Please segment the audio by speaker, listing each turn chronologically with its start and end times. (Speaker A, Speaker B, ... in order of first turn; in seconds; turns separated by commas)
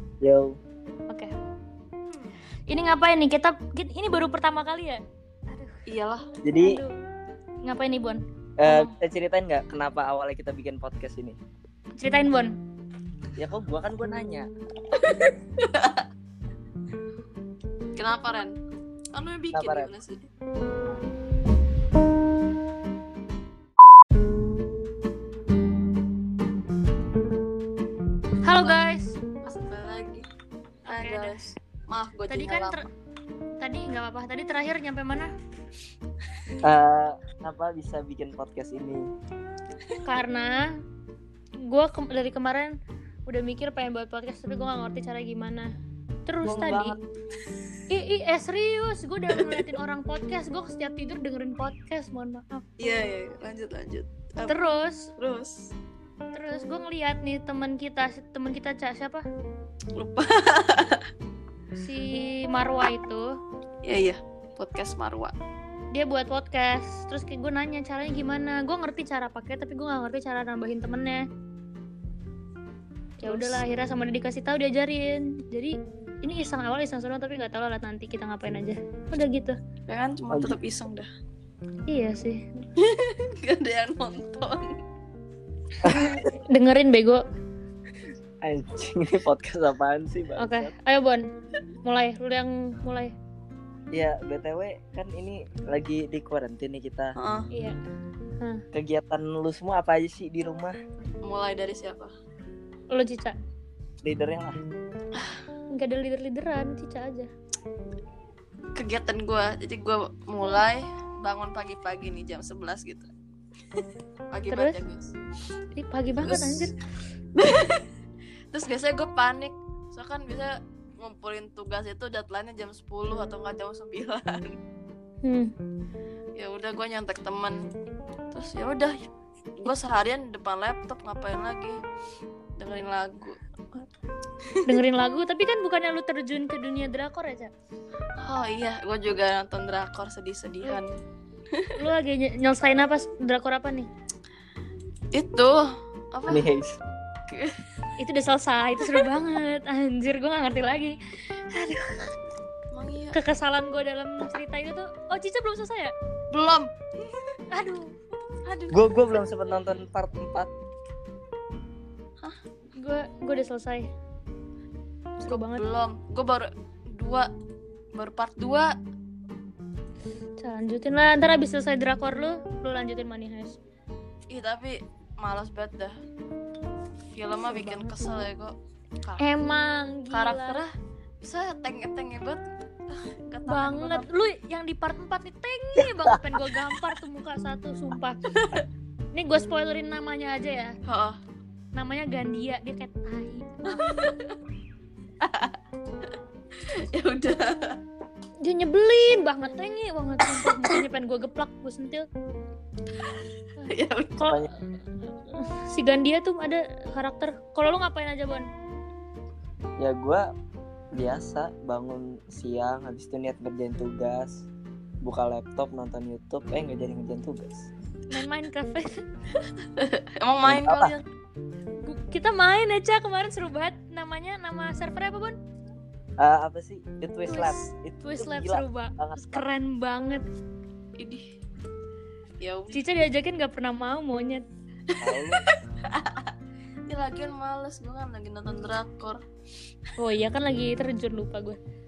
Speaker A: 0.2-0.6, Speaker B: 2.7-5.8, Speaker C: 5.9-6.3, Speaker A: 6.4-6.8, Speaker B: 6.5-6.9, Speaker B: 7.6-8.9, Speaker A: 8.6-11.4, Speaker B: 12.0-12.5, Speaker A: 13.4-14.5, Speaker C: 14.9-16.1, Speaker C: 17.9-18.6, Speaker C: 19.1-20.3, Speaker A: 19.5-19.9, Speaker B: 28.4-29.2, Speaker C: 29.4-30.3, Speaker B: 30.9-31.4, Speaker C: 30.9-32.8, Speaker B: 32.3-32.9, Speaker B: 33.6-35.3, Speaker A: 36.6-39.1, Speaker B: 40.0-40.6, Speaker B: 41.6-42.7, Speaker B: 43.3-45.7, Speaker B: 46.2-47.0, Speaker A: 46.4-47.0, Speaker B: 47.9-52.6, Speaker C: 52.8-54.5, Speaker B: 54.5-55.1, Speaker C: 55.2-55.7, Speaker B: 56.3-59.2, Speaker C: 60.0-61.0, Speaker B: 61.8-63.3, Speaker C: 63.8-65.3, Speaker B: 65.9-71.2, Speaker B: 73.2-79.5, Speaker C: 73.2-73.6, Speaker C: 79.9-81.1, Speaker A: 80.3-80.6, Speaker B: 81.9-82.5, Speaker C: 82.8-84.8, Speaker A: 85.8-86.3, Speaker B: 85.8-87.2, Speaker A: 88.4-90.7, Speaker B: 90.4-91.2, Speaker B: 91.8-93.1, Speaker A: 93.9-97.2, Speaker C: 97.2-97.5, Speaker B: 97.5-97.8, Speaker A: 98.7-100.8, Speaker C: 101.2-102.1, Speaker B: 102.9-103.3, Speaker A: 104.0-104.6, Speaker C: 105.1-105.4, Speaker B: 105.7-107.3, Speaker C: 108.7-113.1, Speaker C: 114.3-115.1, Speaker B: 114.5-114.8, Speaker B: 115.7-116.8, Speaker C: 116.2-116.7, Speaker C: 117.3-117.8, Speaker C: 118.5-124.6, Speaker B: 125.2-125.5, Speaker C: 126.3-127.7, Speaker C: 128.3-128.9, Speaker C: 129.6-131.8, Speaker C: 132.6-133.4, Speaker C: 134.5-134.8, Speaker B: 134.6-137.5, Speaker C: 138.2-140.9, Speaker B: 141.8-143.9, Speaker C: 145.1-146.5, Speaker A: 146.3-146.8, Speaker C: 147.3-147.6, Speaker B: 148.0-151.0, Speaker C: 148.8-149.1, Speaker B: 151.5-152.0, Speaker C: 152.7-153.2, Speaker B: 153.1-155.9, Speaker C: 156.3-157.2, Speaker B: 157.5-157.9, Speaker C: 158.4-159.2, Speaker A: 158.7-160.5, Speaker B: 162.8-163.9, Speaker C: 165.2-167.3, Speaker B: 165.2-165.6, Speaker C: 167.9-168.7, Speaker B: 170.4-173.6, Speaker C: 174.3-175.9, Speaker C: 177.1-179.2, Speaker B: 177.3-178.2, Speaker B: 179.2-180.6, Speaker C: 180.1-184.1, Speaker B: 183.4-188.2, Speaker A: 185.8-186.4, Speaker C: 188.3-188.7, Speaker B: 189.1-190.7, Speaker C: 190.8-191.2, Speaker B: 191.7-193.8, Speaker C: 193.7-194.4, Speaker C: 195.2-195.6, Speaker C: 196.6-197.8, Speaker B: 198.4-202.1, Speaker C: 200.3-200.8, Speaker B: 203.6-204.4, Speaker C: 203.7-204.3, Speaker A: 204.2-204.5, Speaker B: 205.3-208.4, Speaker A: 209.8-210.2, Speaker A: 210.9-214.4, Speaker A: 215.0-217.7, Speaker B: 218.1-219.0, Speaker C: 219.7-221.0, Speaker A: 220.4-220.9, Speaker B: 221.8-225.3, Speaker A: 226.2-229.4, Speaker B: 227.3-230.2, Speaker C: 231.0-231.2, Speaker C: 232.4-232.8, Speaker B: 232.7-234.4, Speaker C: 234.9-236.3, Speaker A: 235.0-235.4, Speaker C: 236.9-239.2, Speaker B: 240.0-241.6